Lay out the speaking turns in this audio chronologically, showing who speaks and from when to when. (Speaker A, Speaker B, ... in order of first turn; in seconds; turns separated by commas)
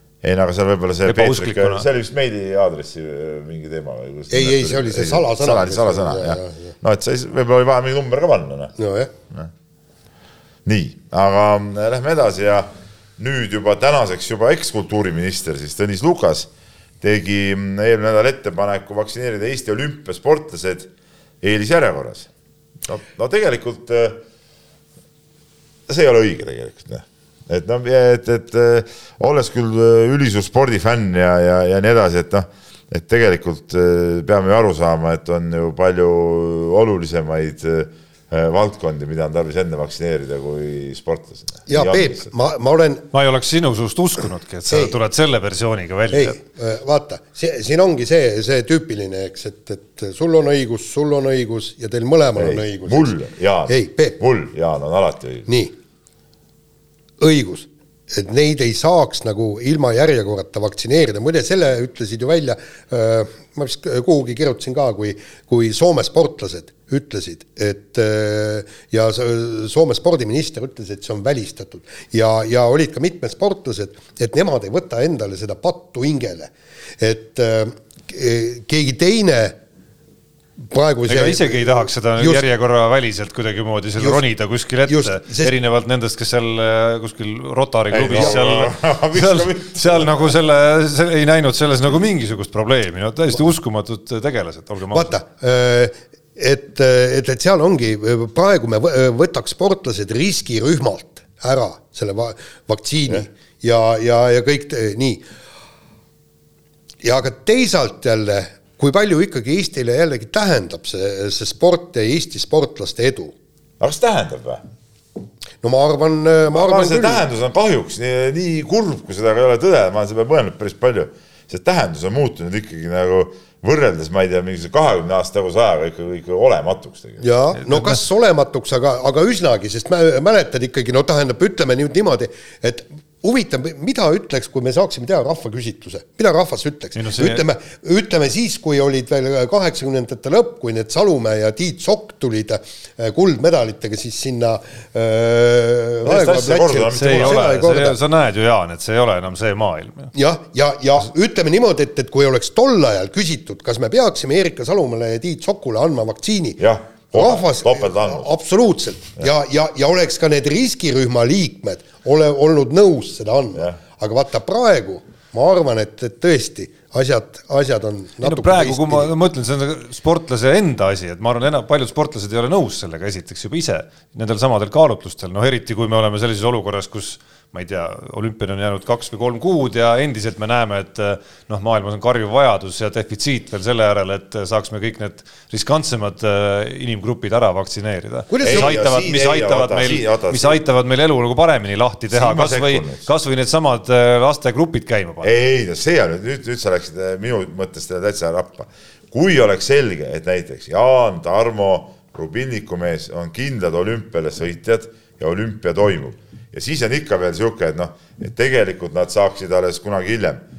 Speaker A: 0.2-8.7, Speaker B: 1.1-1.9, Speaker C: 4.3-6.7, Speaker C: 8.8-9.1, Speaker A: 10.6-16.5, Speaker A: 17.0-20.9, Speaker A: 21.4-22.3, Speaker A: 22.8-24.2, Speaker A: 25.9-42.3, Speaker C: 41.7-43.0, Speaker B: 43.1-46.4, Speaker C: 44.7-45.0, Speaker C: 46.1-53.1, Speaker A: 52.4-55.5, Speaker C: 53.7-54.2, Speaker C: 55.5-55.7, Speaker C: 57.2-79.5, Speaker C: 80.7-81.6, Speaker B: 81.1-95.1, Speaker C: 82.2-82.4, Speaker C: 84.9-85.5, Speaker A: 87.9-90.3, Speaker C: 94.9-105.2, Speaker C: 107.0-113.3, Speaker A: 113.8-114.6, Speaker C: 115.6-117.2, Speaker A: 116.5-127.2, Speaker C: 127.2-148.0, Speaker B: 127.6-128.0, Speaker B: 136.9-137.4, Speaker A: 146.0-147.5, Speaker B: 146.9-150.1, Speaker C: 150.1-156.6, Speaker A: 156.6-158.3, Speaker C: 157.1-169.1, Speaker B: 168.2-195.3, Speaker C: 188.3-188.7, Speaker A: 188.4-190.6, Speaker A: 192.1-193.1, Speaker A: 195.2-210.4